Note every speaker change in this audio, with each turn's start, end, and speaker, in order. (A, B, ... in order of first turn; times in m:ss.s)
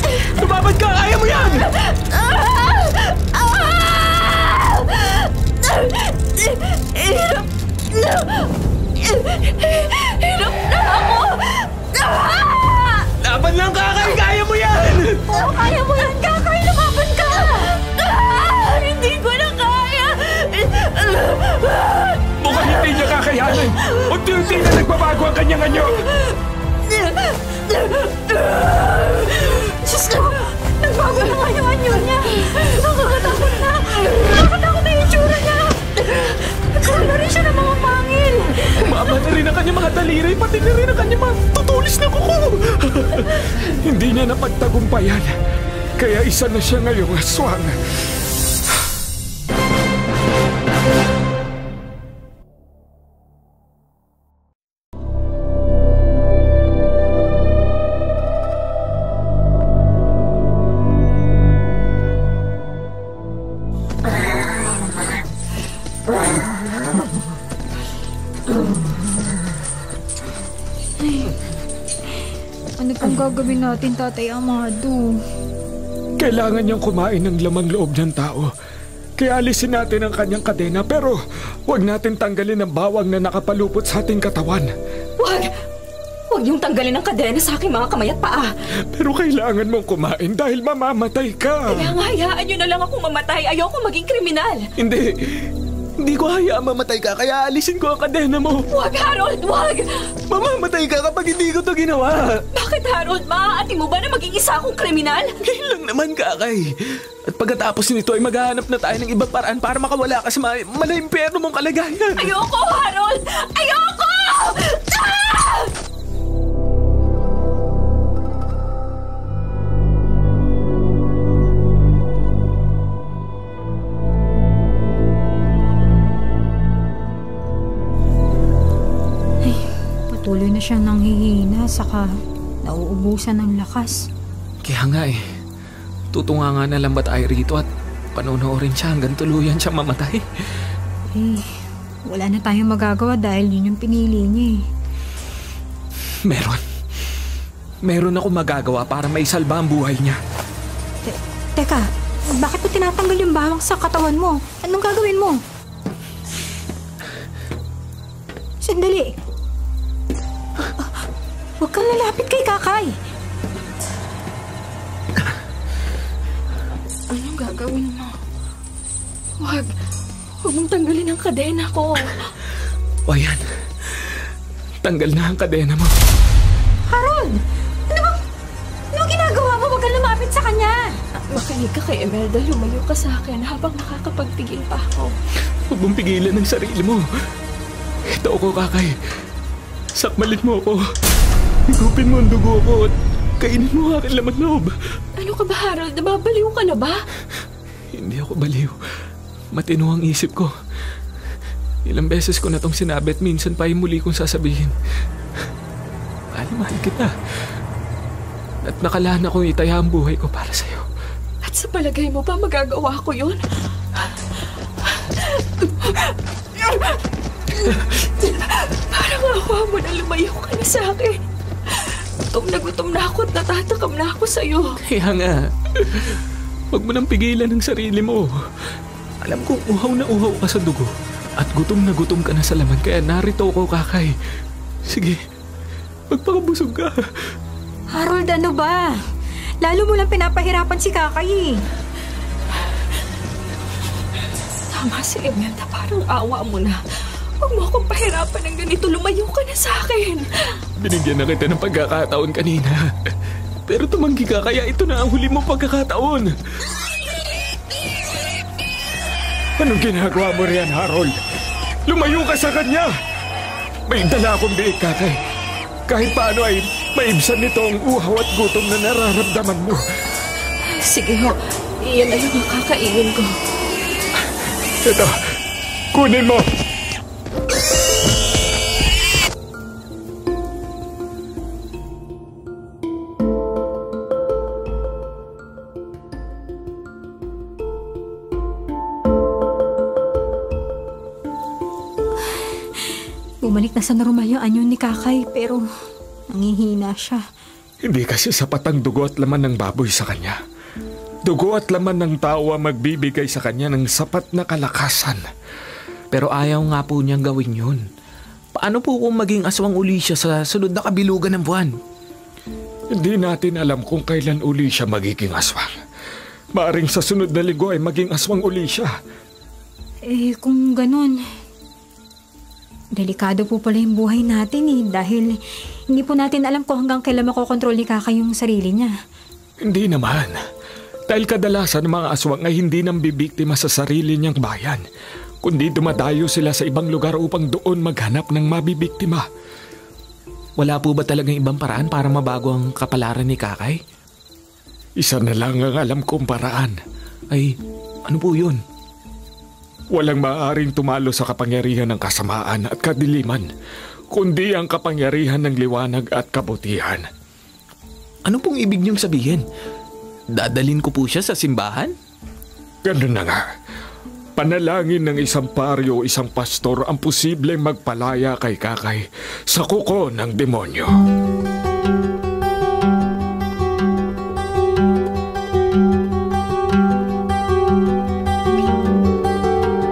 0:00.3-0:01.7 A
0:01.9-0:13.1 B
0:13.2-0:15.2 A
0:15.3-0:22.3 B
0:22.4-0:26.0 C
0:22.8-0:23.1 B
0:26.8-0:38.8 B
0:30.9-0:32.4 D
0:34.1-0:35.4 D
0:36.8-0:37.8 D
0:38.7-0:43.5 A
0:43.7-0:45.3 C
0:46.0-0:47.7 C
1:12.8-1:15.2 D
1:16.2-1:18.5 C
1:19.2-1:24.7 C
1:25.2-1:25.5 B
1:26.3-1:28.5 B
1:28.9-1:31.9 C
1:31.7-1:34.7 B
1:34.8-1:38.7 A
1:38.7-1:40.1 B
1:40.3-1:42.4 A
1:42.5-1:45.3 B
1:45.4-1:46.7 A
1:47.3-1:52.3 A
1:52.2-1:55.7 B
2:09.4-2:14.0 D
2:14.6-2:15.2 A
2:16.1-2:20.2 A
2:21.1-2:24.6 D
2:26.3-2:26.6 A
2:27.8-2:30.2 A
2:31.0-2:35.4 D
2:38.6-2:39.2 D
2:41.6-2:43.0 D
2:47.1-2:48.1 B
2:49.4-2:49.7 B
2:50.4-2:52.2 B
2:53.1-2:54.2 A
2:54.8-2:55.9 A
2:56.9-2:58.2 D
2:58.9-3:01.0 D
3:01.3-3:05.2 B
3:05.7-3:07.0 A
3:08.1-3:09.0 A
3:10.0-3:10.8 A
3:11.7-3:14.8 A
3:15.2-3:17.0 B
3:17.9-3:18.8 A
3:19.5-3:20.5 A
3:21.8-3:24.7 A
3:26.3-3:27.1 A
3:28.6-3:30.8 A
3:31.4-3:33.4 B
3:34.9-3:37.0 B
3:37.6-3:41.2 B
3:41.7-3:44.8 B
3:44.8-3:46.2 A
3:46.7-3:48.4 A
3:49.2-3:54.1 A
3:54.8-3:55.2 A
3:56.1-3:57.0 A
3:57.9-3:59.0 D
3:59.6-4:01.6 D
4:04.7-4:06.8 B
4:07.4-4:10.3 B
4:10.8-4:12.8 A
4:13.7-4:16.3 A
4:19.6-4:21.2 C
4:21.9-4:22.9 C
4:23.9-4:25.2 C
4:25.9-4:29.8 C
4:30.7-4:33.3 B
4:34.8-4:35.2 C
4:35.9-4:36.4 C
4:52.3-4:55.6 D
4:56.3-4:57.2 D
4:57.8-5:00.4 C
5:01.2-5:05.2 C
5:06.1-5:07.8 A
5:08.6-5:11.7 A
5:12.9-5:15.7 C
5:16.5-5:18.9 C
5:20.0-5:21.2 D
5:23.0-5:25.4 D
5:25.9-5:28.9 D
5:29.6-5:30.4 C
5:31.1-5:34.8 C
5:35.4-5:39.2 C
5:40.6-5:43.8 A
5:45.0-5:46.8 C
5:48.1-5:48.6 A
5:49.9-5:53.5 C
5:54.1-5:57.1 C
5:58.2-5:59.4 A
6:00.3-6:01.9 A
6:02.8-6:03.4 C
6:04.4-6:11.0 C